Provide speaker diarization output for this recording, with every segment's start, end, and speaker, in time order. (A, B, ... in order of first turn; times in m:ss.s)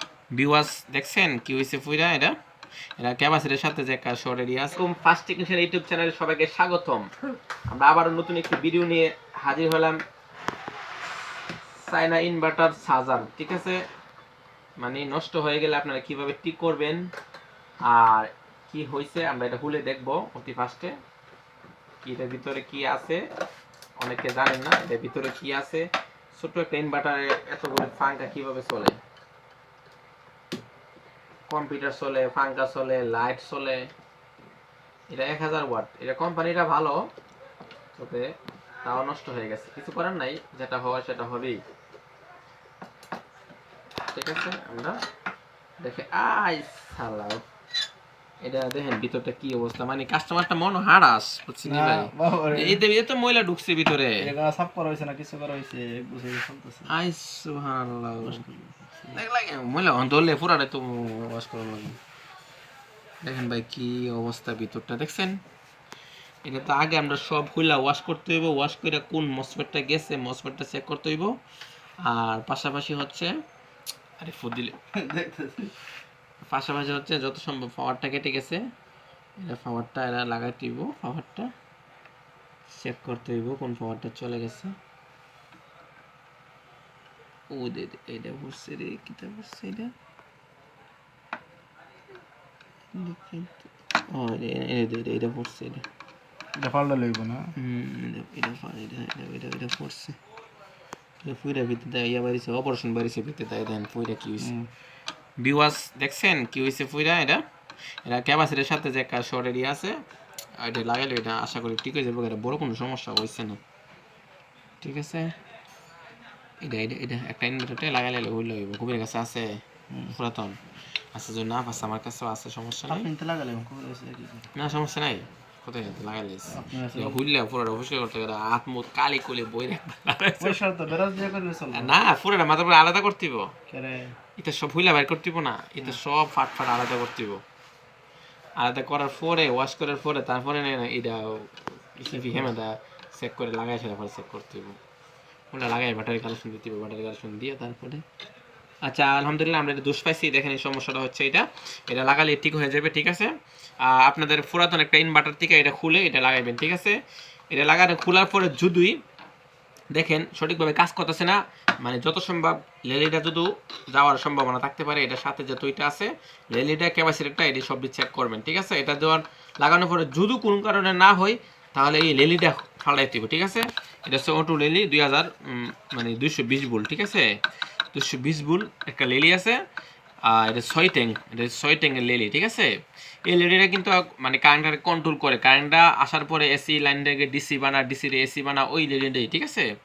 0:00.3-0:02.3 A
0:03.0-0:07.1 A
0:07.7-0:10.0 A
0:11.7-0:13.8 A
0:14.8-0:17.1 A
0:17.8-0:21.0 A
0:22.0-0:23.3 A
0:24.0-0:29.0 A
0:31.5-0:33.9 A
0:35.1-0:37.1 A
0:38.0-0:41.6 A
0:44.1-0:45.0 A
0:45.8-0:47.4 A
0:48.4-0:54.3 A
0:51.6-0:52.8 B
0:54.2-0:56.9 B
0:56.9-0:58.4 A
0:58.2-0:59.2 B
0:59.1-1:02.0 A
1:03.2-1:05.4 A
1:06.4-1:11.4 A
1:12.0-1:13.4 A
1:14.2-1:14.7 A
1:14.9-1:15.7 B
1:16.4-1:18.6 A
1:19.4-1:21.5 A
1:22.7-1:24.7 A
1:27.5-1:29.9 A
1:32.9-1:35.8 A
1:36.6-1:37.5 B
1:37.6-1:40.2 A
1:41.2-1:44.5 A
1:44.4-1:44.7 B
1:45.4-1:47.4 A
1:48.0-1:50.0 A
1:50.6-1:53.6 A
1:54.8-1:55.4 A
1:56.6-2:00.6 A
2:01.1-2:03.1 A
2:02.9-2:04.5 B
2:04.5-2:10.6 A
2:06.5-2:07.2 B
2:10.4-2:12.0 B
2:11.7-2:13.5 A
2:13.7-2:14.2 B
2:14.4-2:17.4 A
2:18.6-2:24.8 A
2:22.1-2:22.5 B
2:25.5-2:28.0 A
2:28.8-2:37.0 A
2:37.5-2:39.0 A
2:39.9-2:57.3 A
2:57.9-2:59.6 A
3:00.2-3:02.7 A
3:03.2-3:09.7 A